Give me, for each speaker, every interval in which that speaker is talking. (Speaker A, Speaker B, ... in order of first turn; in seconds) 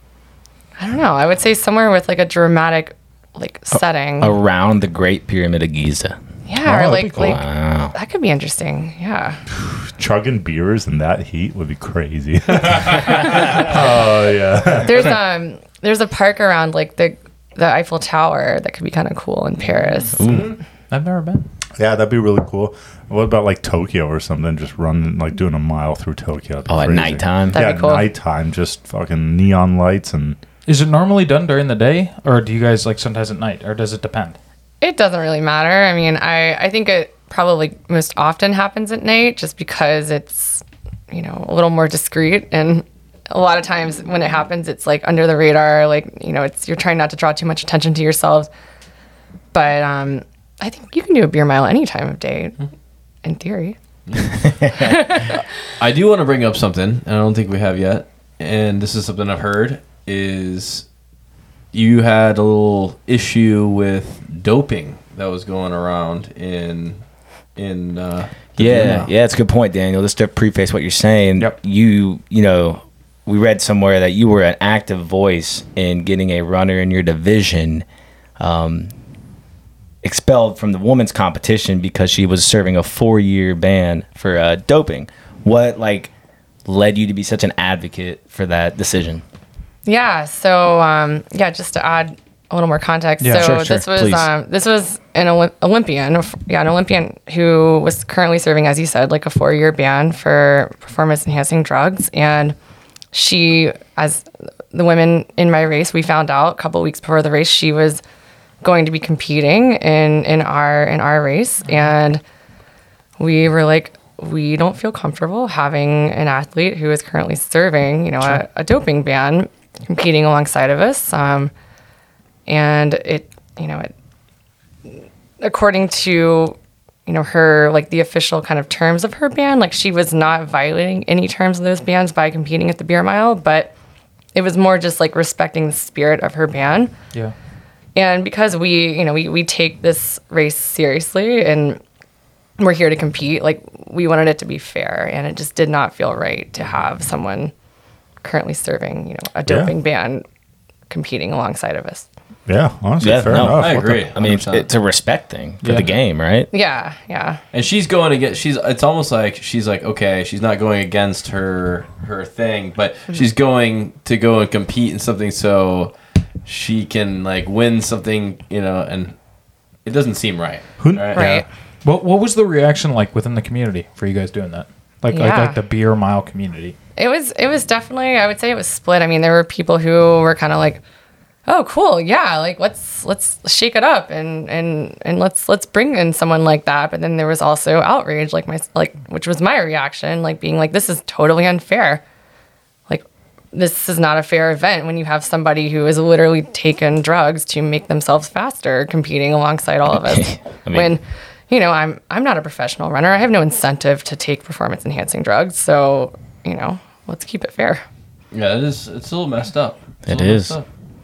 Speaker A: 0.8-4.4, 6.5-9.4, 14.8-20.4, 27.5-28.1, 34.8-48.5, 49.5-52.5, 53.2-53.8, 54.7-55.4, 89.8-102.5, 103.1-108.0, 108.6-112.2, 113.2-121.5, 122.5-123.9, 125.4-133.7, 134.3-136.9, 137.9-141.8, 142.6-147.5, 148.2-150.2, 150.9-152.1, 156.5-157.4, 171.1-171.4, 175.1-175.6, 177.0-180.8, 181.5-192.0, 192.9-207.8
Speaker B: 4.2-6.2, 7.0-7.9, 20.2-20.5, 26.7-27.6, 54.4-55.0, 68.6-77.8, 78.4-78.9, 80.0-86.1, 86.6-89.2, 93.3-94.3, 153.0-156.5, 199.9-200.9, 210.1-210.6
Speaker C: 6.6-7.3, 9.6-15.2, 21.8-30.4, 149.5-149.7, 152.5-154.0, 170.8-171.4
Speaker D: 20.2-20.5, 54.1-54.5, 55.8-60.9, 61.7-67.0, 67.5-69.1, 153.4-154.7, 157.5-165.9, 166.4-169.1, 169.8-171.3, 208.3-210.7
Speaker E: 20.9-21.4, 30.6-34.4, 93.2-93.5, 155.6-155.9, 171.8-176.8